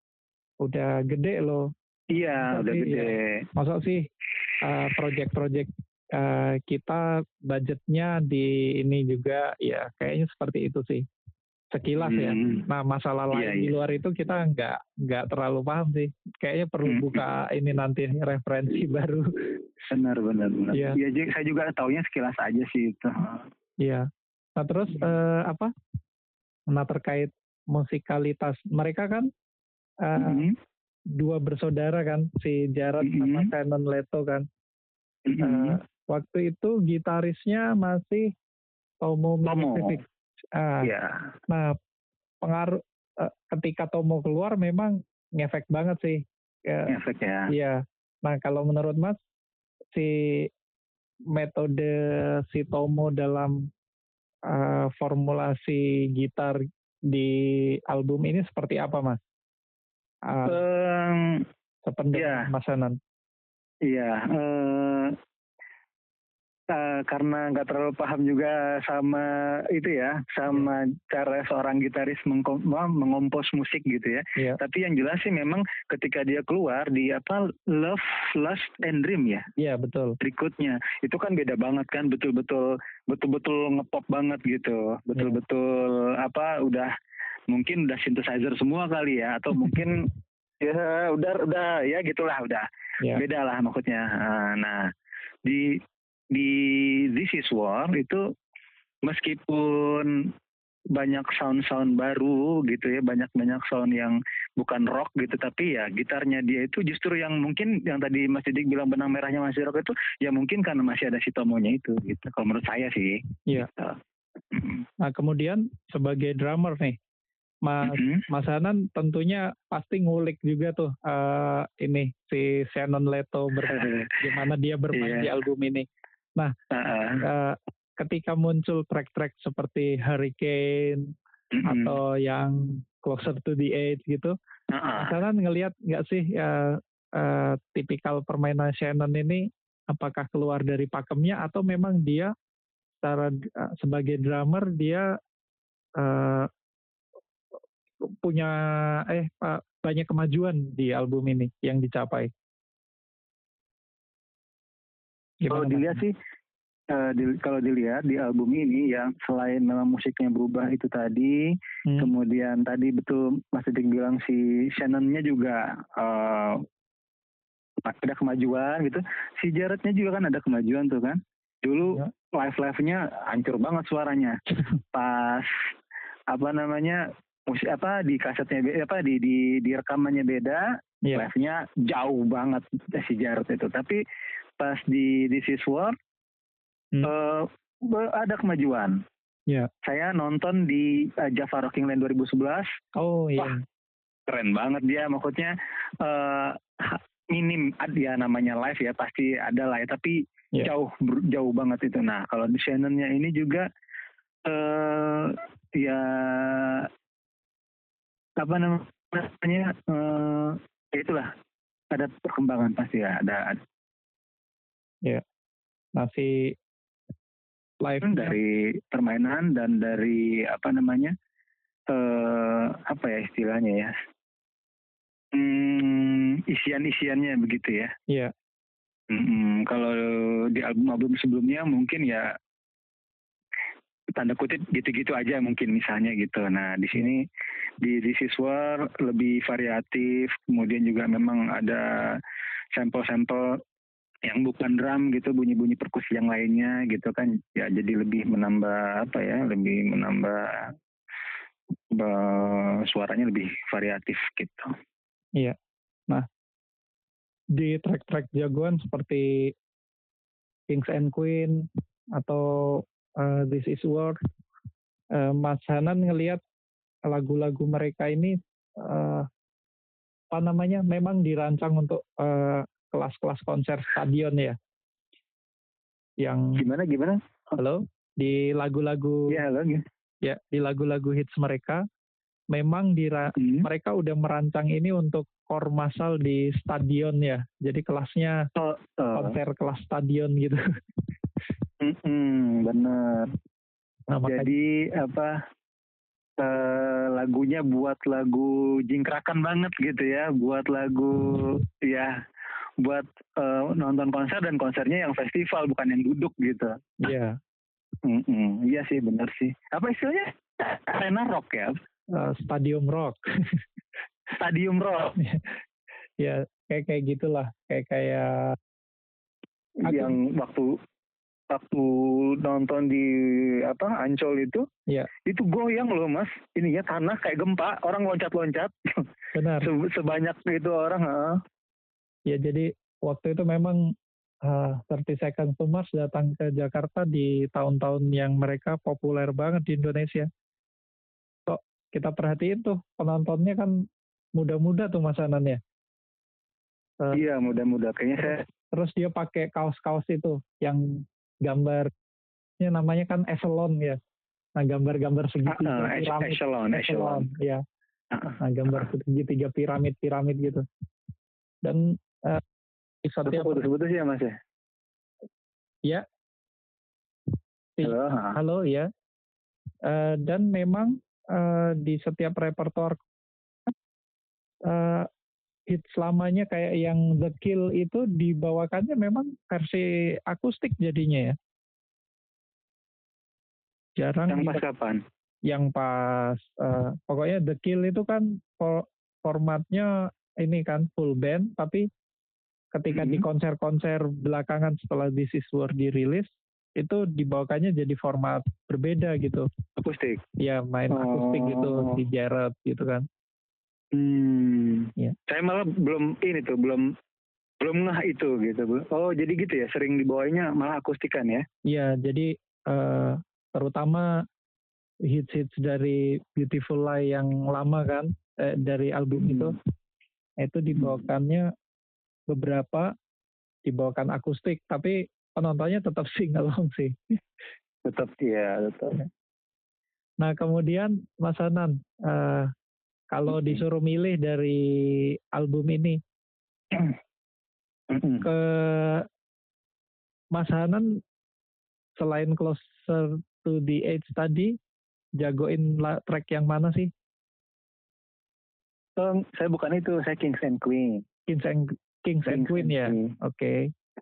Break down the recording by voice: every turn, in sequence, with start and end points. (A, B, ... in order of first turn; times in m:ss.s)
0:00.6-0:01.7 A
0:02.1-0:03.5 B
0:02.3-0:04.1 A
0:04.6-0:11.1 A
0:11.7-0:19.5 A
0:12.0-0:12.7 B
0:13.3-0:13.7 B
0:16.8-0:17.2 B
0:19.9-0:23.5 B
0:20.7-0:21.0 A
0:23.8-0:25.7 A
0:26.7-0:29.3 A
0:30.0-0:30.5 A
0:30.2-0:30.6 B
0:31.2-0:34.5 A
0:33.0-0:33.5 B
0:35.3-0:35.8 B
0:35.4-0:38.4 A
0:39.0-0:40.9 A
0:39.4-0:40.0 B
0:40.8-0:41.3 B
0:41.5-0:41.8 A
0:42.4-0:46.9 A
0:46.9-0:47.5 B
0:47.5-0:49.2 A
0:49.9-0:50.5 A
0:51.3-0:53.7 A
0:54.5-0:56.6 A
0:57.1-0:59.2 A
1:00.2-1:00.6 A
1:00.4-1:01.5 B
1:01.9-1:03.0 A
1:02.1-1:02.5 B
1:03.9-1:05.2 B
1:06.7-1:19.5 B
1:19.6-1:20.2 A
1:20.2-1:26.9 B
1:27.5-1:30.1 B
1:30.6-1:34.9 B
1:35.4-1:35.8 B
1:36.3-1:38.2 B
1:39.0-1:40.3 B
1:40.9-1:54.0 B
1:54.5-1:54.8 B
1:55.0-1:57.0 A
1:57.6-2:06.5 A
1:57.8-1:58.3 B
2:03.6-2:04.2 B
2:04.9-2:05.3 B
2:06.7-2:07.3 B
2:07.2-2:14.4 A
2:11.5-2:12.0 B
2:14.7-2:15.2 B
2:15.0-2:22.3 A
2:23.0-2:25.1 A
2:26.0-2:26.5 A
2:28.0-2:32.3 A
2:35.4-2:36.0 A
2:35.5-2:36.2 B
2:36.9-2:46.6 B
2:41.9-2:42.1 A
2:47.8-2:54.4 B
2:51.8-2:52.1 A
2:54.9-2:55.5 B
2:56.3-3:04.0 B
3:04.6-3:06.0 B
3:07.0-3:09.0 B
3:09.8-3:12.7 B
3:13.0-3:13.6 A
3:14.3-3:23.7 B
3:24.4-3:26.9 B
3:28.4-3:31.3 B
3:31.9-3:33.6 B
3:36.0-3:36.6 A
3:37.8-3:38.4 A
3:38.0-3:41.2 B
3:41.9-3:43.9 B
3:45.3-3:47.9 B
3:49.1-3:52.3 B
3:54.2-3:57.2 B
3:57.8-4:02.2 B
4:02.7-4:03.6 B
4:04.2-4:10.7 B
4:11.9-4:14.7 B
4:17.5-4:19.5 A
4:20.7-4:24.2 A
4:25.1-4:26.4 A
4:27.1-4:29.3 A
4:30.3-4:34.6 A
4:36.2-4:36.6 A
4:36.6-4:37.6 B
4:37.6-4:39.4 A
4:39.3-4:39.8 B
4:40.2-4:41.8 A
4:42.5-4:48.4 A
4:43.3-4:43.7 B
4:48.6-4:49.4 B
4:49.2-4:50.6 A
4:51.8-4:53.3 B
4:54.1-4:54.5 A
4:54.2-4:55.4 B
4:56.4-5:02.2 B
5:02.8-5:06.8 B
5:07.0-5:07.4 A
5:08.0-5:11.8 B
5:12.1-5:13.6 A
5:14.4-5:15.2 B
5:15.2-5:15.6 A
5:16.2-5:18.6 A
5:19.8-5:20.8 B
5:19.9-5:20.2 A
5:21.5-5:24.7 B
5:25.3-5:29.1 B
5:29.4-5:29.7 A
5:29.6-5:31.4 B
5:32.3-5:40.3 A
5:41.5-5:45.6 A
5:47.1-5:48.4 B
5:48.2-5:51.9 A
5:52.6-5:54.0 A
5:54.6-5:57.6 A
5:55.5-5:57.2 B
5:58.1-5:58.9 B
5:58.4-6:00.6 A
6:01.6-6:02.4 A
6:03.0-6:03.6 A
6:03.3-6:04.4 B
6:07.8-6:08.9 A
6:07.8-6:08.4 B
6:09.8-6:13.0 A
6:14.6-6:15.1 A
6:15.7-6:21.4 A
6:24.0-6:24.6 A
6:24.3-6:25.0 B
6:25.4-6:31.9 A
6:32.7-6:39.5 A
6:32.9-6:33.3 B
6:39.8-6:40.2 B
6:40.4-6:43.1 A
6:40.9-6:42.0 B
6:43.9-6:46.9 B
6:47.6-6:51.5 B
6:51.6-6:54.2 A
6:55.0-6:59.6 A
6:59.2-6:59.6 B
7:00.4-7:01.5 A
7:00.8-7:01.0 B
7:02.3-7:02.9 A
7:03.7-7:07.2 A
7:07.8-7:09.1 B
7:10.2-7:12.5 A
7:13.1-7:16.0 A
7:13.3-7:13.6 B
7:17.9-7:18.3 B
7:18.2-7:19.1 A
7:20.3-7:21.0 A
7:22.0-7:24.6 A
7:25.2-7:26.9 A
7:29.0-7:31.0 B
7:31.3-7:33.7 A
7:32.3-7:33.2 B